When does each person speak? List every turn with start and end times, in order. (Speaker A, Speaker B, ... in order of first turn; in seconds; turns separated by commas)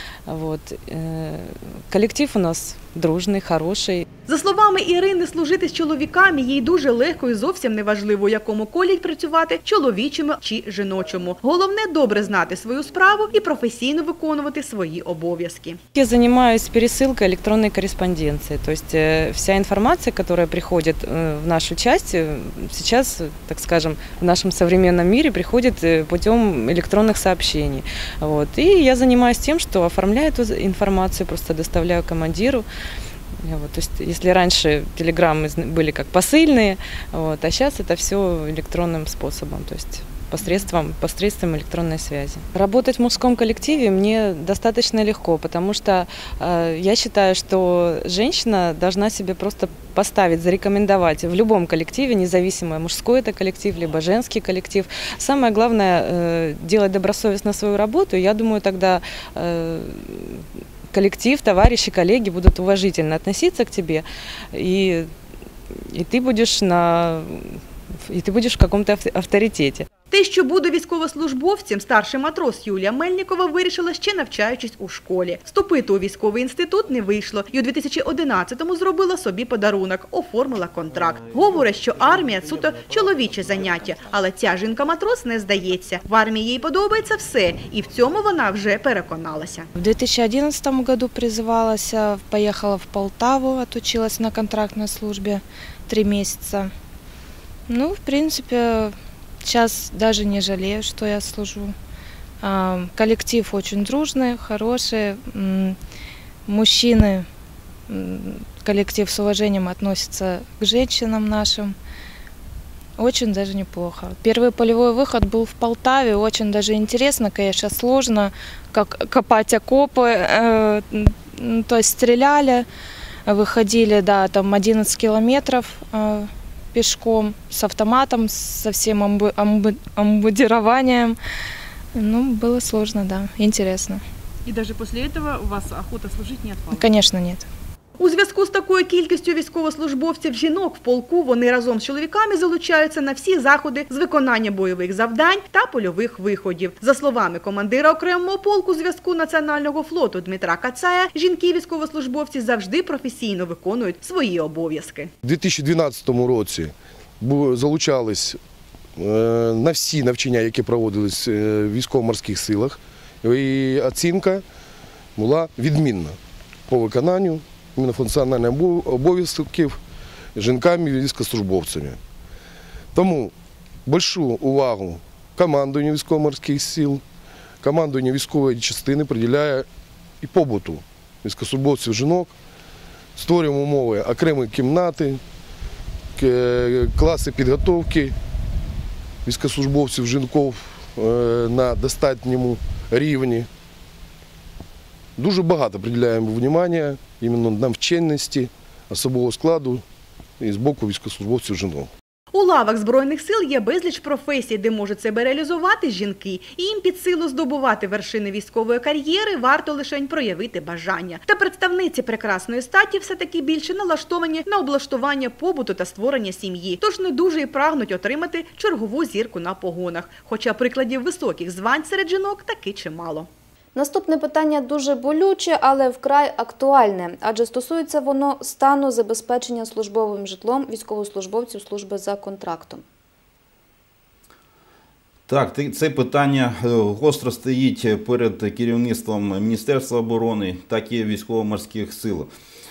Speaker A: 0.3-4.0, Speaker B: 4.3-15.8, Speaker A: 15.9-32.6, Speaker A: 33.4-65.1, Speaker A: 65.9-69.9, Speaker B: 70.1-89.7, Speaker C: 89.8-96.7, Speaker C: 97.7-98.9, Speaker C: 99.4-101.7, Speaker C: 102.4-105.8, Speaker C: 106.5-107.2, Speaker C: 107.9-111.7, Speaker C: 113.0-122.6, Speaker C: 123.2-131.2, Speaker C: 131.9-134.0, Speaker B: 136.0-136.5, Speaker C: 136.7-137.4, Speaker B: 138.0-155.1, Speaker D: 155.2-158.4, Speaker D: 159.0-164.4, Speaker D: 165.2-166.2, Speaker D: 166.7-169.8, Speaker D: 170.3-172.0, Speaker D: 172.9-173.3, Speaker D: 173.8-177.0, Speaker D: 177.6-179.7, Speaker D: 180.2-182.3, Speaker D: 183.2-185.2, Speaker D: 186.2-188.1, Speaker D: 189.2-193.5, Speaker D: 195.2-199.8, Speaker D: 200.4-201.9, Speaker B: 202.3-223.3, Speaker E: 223.7-232.8, Speaker F: 235.3-242.3